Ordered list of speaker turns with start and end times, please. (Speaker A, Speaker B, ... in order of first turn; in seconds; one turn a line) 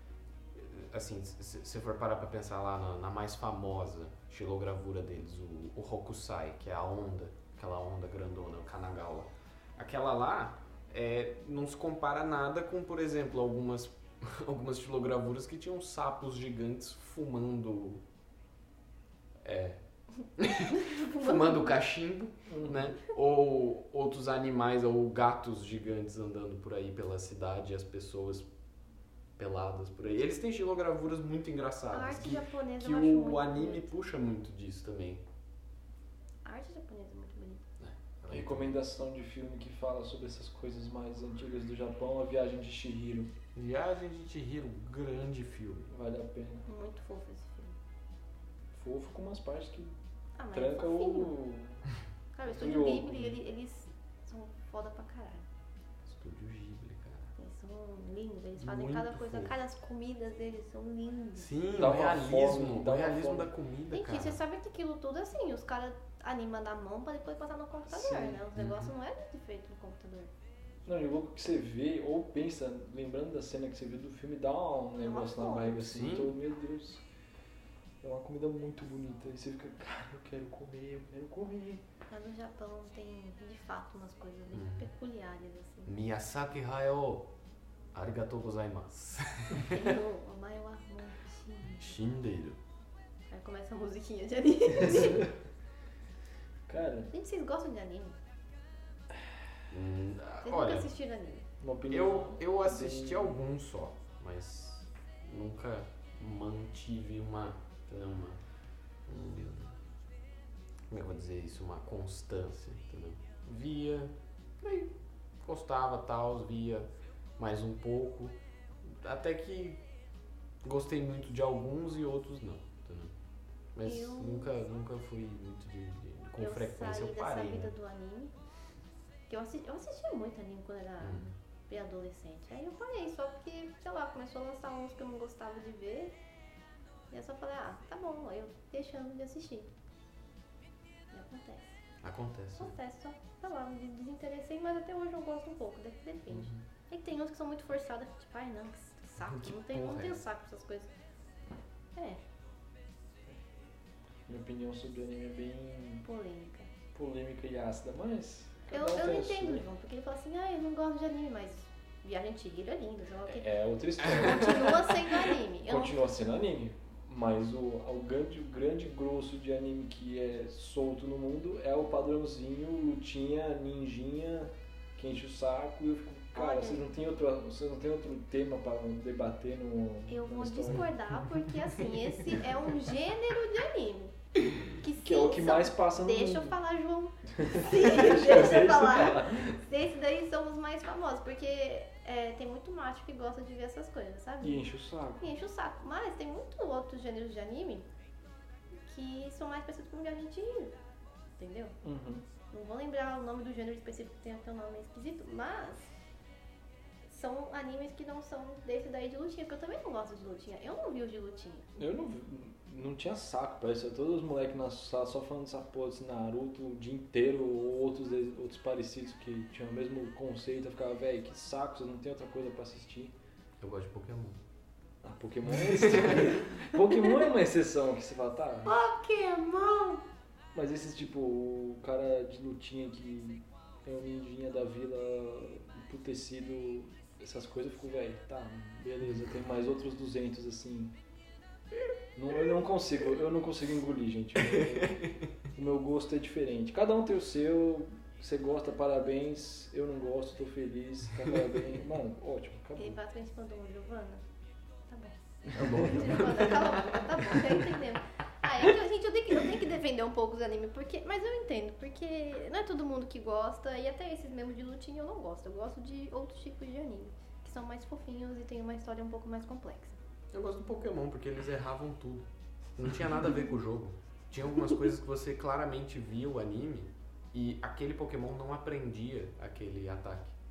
Speaker A: 0.5-18.0
Speaker A: 19.4-19.8
Speaker A: 20.4-28.5
Speaker B: 20.7-21.8
Speaker C: 22.5-23.0
Speaker A: 29.4-35.2
Speaker B: 31.9-34.0
Speaker B: 36.5-37.7
Speaker A: 37.8-38.8
Speaker C: 38.3-43.3
Speaker A: 43.5-45.9
Speaker C: 45.9-46.7
Speaker B: 46.7-47.8
Speaker C: 48.8-49.9
Speaker B: 50.4-51.4
Speaker C: 50.5-51.9
Speaker B: 52.3-55.5
Speaker C: 52.5-53.3
Speaker A: 56.0-57.3
Speaker B: 57.4-61.5
Speaker A: 58.6-59.5
Speaker A: 61.4-64.4
Speaker C: 61.8-63.5
Speaker B: 63.9-70.3
Speaker C: 67.9-68.4
Speaker A: 68.5-68.9
Speaker C: 70.9-77.0
Speaker B: 75.0-75.9
Speaker A: 75.7-76.4
Speaker C: 78.0-81.8
Speaker B: 82.1-85.9
Speaker A: 84.5-84.9
Speaker A: 85.9-87.3
Speaker A: 87.9-89.8
Speaker B: 89.6-92.0
Speaker A: 91.8-92.6
Speaker B: 93.3-95.3
Speaker C: 95.0-95.3
Speaker C: 96.7-97.1
Speaker B: 97.1-98.2
Speaker A: 99.7-100.9
Speaker B: 100.4-101.5
Speaker C: 101.6-103.4
Speaker A: 101.9-108.4
Speaker A: 109.1-109.8
Speaker A: 110.9-119.8
Speaker A: 120.6-123.1
Speaker A: 123.8-127.7
Speaker B: 123.8-124.5
Speaker B: 126.4-128.3
Speaker B: 129.3-136.1
Speaker A: 131.0-131.3
Speaker B: 137.1-139.7
Speaker B: 141.1-141.8
Speaker A: 142.0-142.8
Speaker B: 142.6-150.9
Speaker A: 149.6-150.2
Speaker B: 152.0-152.2
Speaker C: 154.3-156.1
Speaker B: 156.0-156.7
Speaker C: 156.9-159.6
Speaker B: 158.7-163.4
Speaker C: 163.3-165.1
Speaker B: 164.1-166.0
Speaker C: 165.7-180.9
Speaker B: 176.3-176.9
Speaker B: 180.1-184.2
Speaker B: 184.7-194.6
Speaker C: 185.0-186.6
Speaker C: 187.3-189.6
Speaker C: 194.4-195.2
Speaker B: 195.2-197.9
Speaker B: 198.8-200.7
Speaker B: 201.4-201.7
Speaker C: 201.8-202.3
Speaker B: 202.5-205.9
Speaker B: 207.1-211.7
Speaker C: 211.8-223.1
Speaker A: 223.6-224.4
Speaker C: 225.0-228.7
Speaker A: 225.7-226.3
Speaker B: 228.7-230.0
Speaker C: 230.5-240.9
Speaker C: 242.2-253.0
Speaker A: 244.5-245.3
Speaker B: 252.8-254.2
Speaker B: 254.9-270.0
Speaker C: 255.5-256.4
Speaker A: 255.6-256.2
Speaker A: 270.3-280.4